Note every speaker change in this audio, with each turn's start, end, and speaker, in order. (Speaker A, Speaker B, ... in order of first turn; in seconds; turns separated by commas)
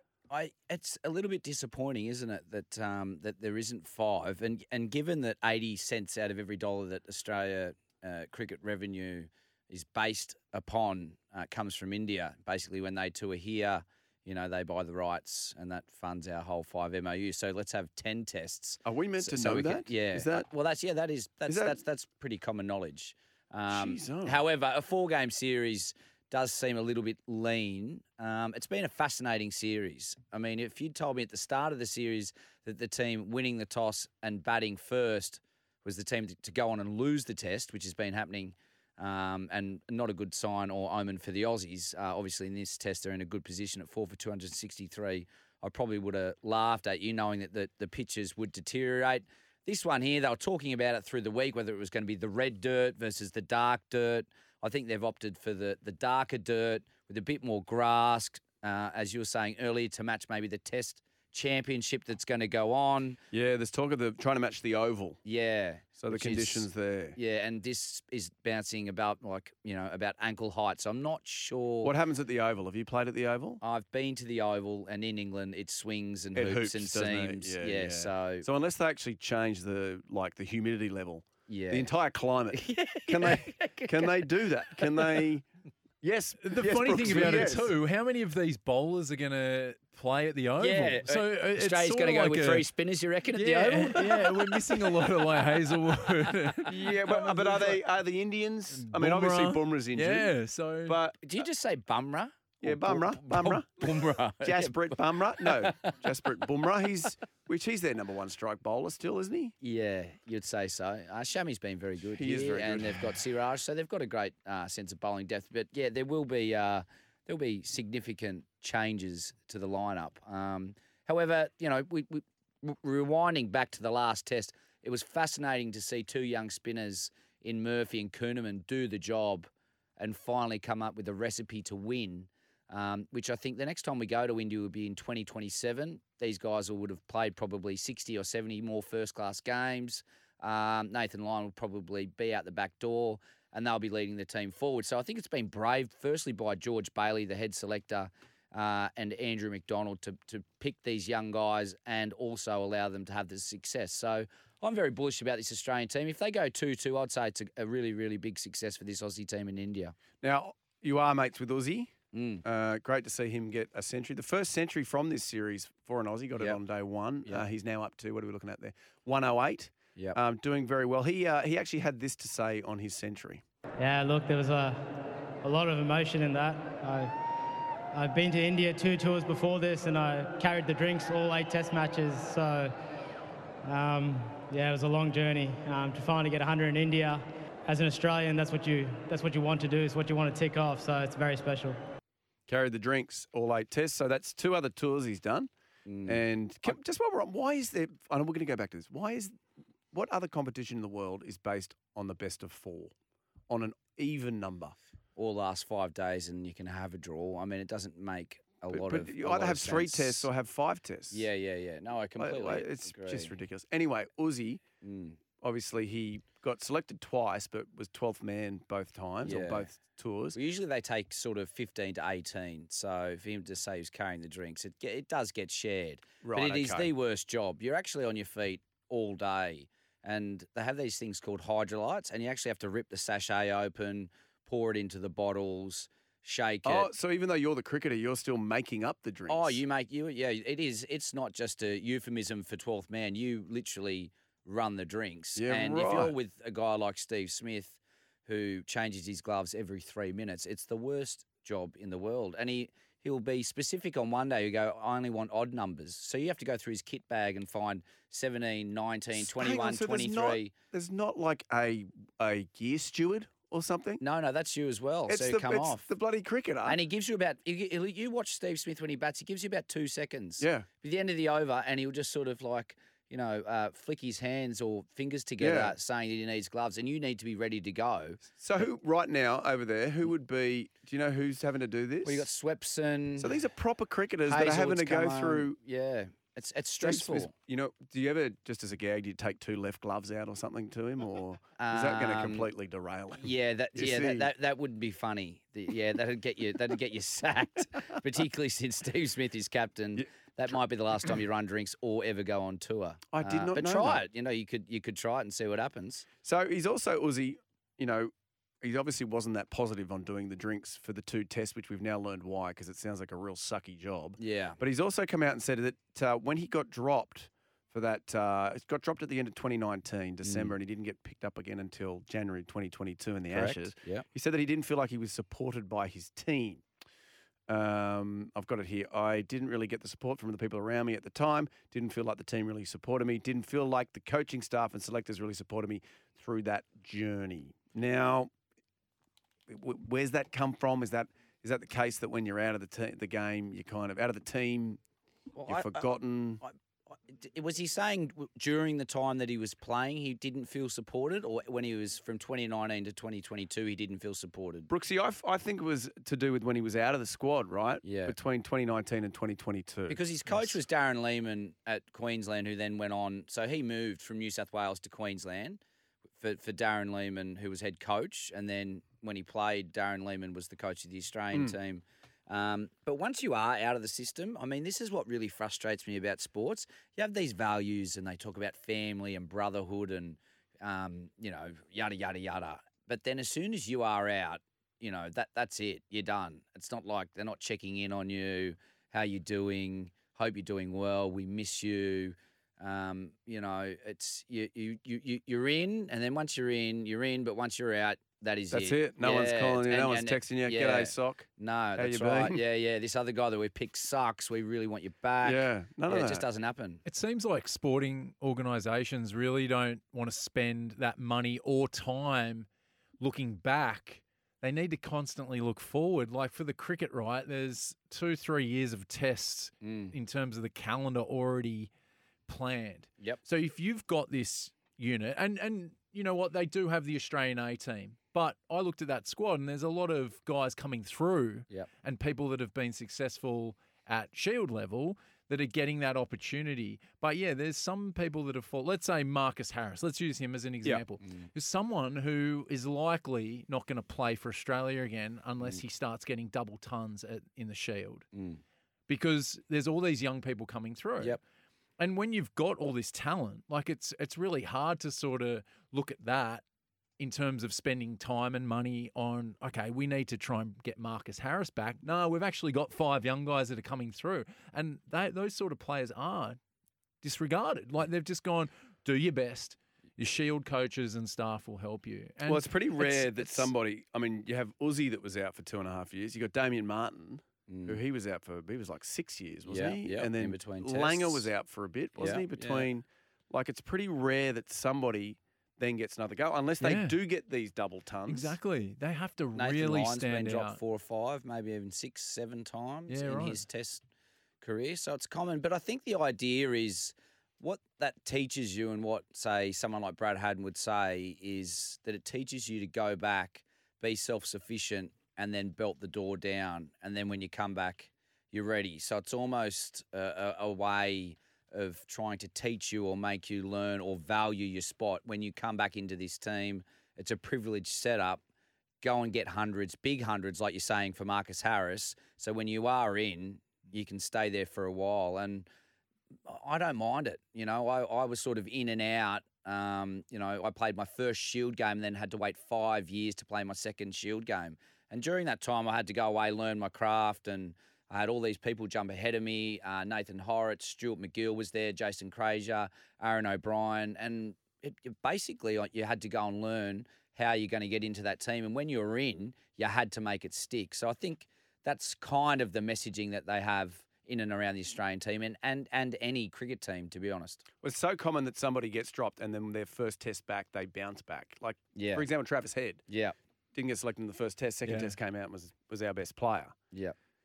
Speaker A: 0.3-63.2, Speaker B: 18.8-20.5, Speaker B: 21.5-21.8, Speaker B: 23.7-24.4, Speaker B: 63.3-65.2, Speaker A: 65.2-71.9, Speaker B: 66.0-67.2, Speaker B: 71.8-73.6, Speaker A: 73.6-78.4, Speaker B: 76.3-85.4, Speaker A: 81.5-81.9, Speaker A: 82.5-85.2, Speaker B: 86.0-87.7, Speaker C: 86.4-92.7, Speaker A: 87.1-87.6, Speaker A: 90.6-94.9, Speaker C: 93.3-96.7, Speaker B: 96.7-100.3, Speaker A: 96.8-97.8, Speaker C: 98.7-101.0, Speaker B: 100.8-101.2, Speaker A: 101.2-106.0, Speaker B: 102.6-109.5, Speaker A: 109.6-159.9, Speaker B: 112.1-113.1, Speaker B: 160.2-161.9, Speaker A: 162.1-162.4, Speaker B: 162.4-173.4, Speaker D: 173.8-177.1, Speaker D: 177.9-182.7, Speaker D: 183.6-191.8, Speaker B: 192.5-195.5, Speaker A: 195.8-196.8, Speaker B: 196.1-199.4, Speaker B: 199.9-202.9, Speaker B: 203.5-204.8, Speaker A: 205.2-210.3, Speaker B: 208.7-211.2, Speaker A: 211.1-213.3, Speaker B: 212.2-214.6, Speaker A: 214.8-215.2, Speaker B: 215.4-220.4, Speaker A: 219.2-219.7, Speaker A: 220.3-236.9, Speaker B: 226.2-226.9, Speaker B: 236.6-239.6, Speaker A: 239.3-260.5, Speaker B: 245.3-246.1, Speaker B: 259.1-264.0, Speaker A: 264.0-265.9, Speaker B: 265.1-266.8, Speaker A: 266.6-278.7, Speaker B: 270.4-270.7, Speaker B: 275.4-275.7, Speaker B: 278.3-282.3, Speaker A: 282.0-283.3, Speaker B: 283.2-285.6, Speaker A: 284.3-287.3, Speaker B: 286.8-294.3, Speaker A: 291.6-292.5, Speaker A: 293.2-306.1, Speaker B: 303.1-304.0, Speaker B: 306.2-326.6, Speaker A: 314.2-314.6, Speaker A: 320.2-320.5, Speaker A: 323.3-324.1, Speaker B: 327.5-338.3, Speaker B: 339.5-344.8, Speaker A: 345.4-354.7, Speaker B: 345.4-346.4, Speaker B: 354.7-360.6, Speaker A: 357.8-358.1, Speaker A: 359.9-365.6, Speaker A: 366.2-406.8, Speaker B: 398.5-402.4, Speaker B: 405.2-406.2, Speaker C: 406.9-412.5, Speaker C: 413.0-421.7, Speaker A: 419.6-419.9, Speaker C: 422.3-448.1, Speaker A: 448.1-448.4, Speaker C: 448.9-451.2, Speaker C: 451.8-456.4, Speaker C: 457.0-466.4, Speaker C: 467.0-473.5, Speaker B: 472.2-488.4, Speaker A: 477.5-477.8, Speaker A: 479.5-481.3, Speaker A: 482.0-482.7, Speaker C: 486.6-487.0, Speaker C: 488.1-490.6, Speaker A: 489.3-493.8, Speaker C: 492.9-493.4, Speaker A: 494.4-518.2, Speaker A: 518.8-525.5, Speaker A: 526.3-557.4, Speaker B: 557.6-562.9, Speaker A: 561.7-562.0, Speaker A: 562.9-563.1, Speaker B: 563.5-566.5, Speaker C: 564.6-564.9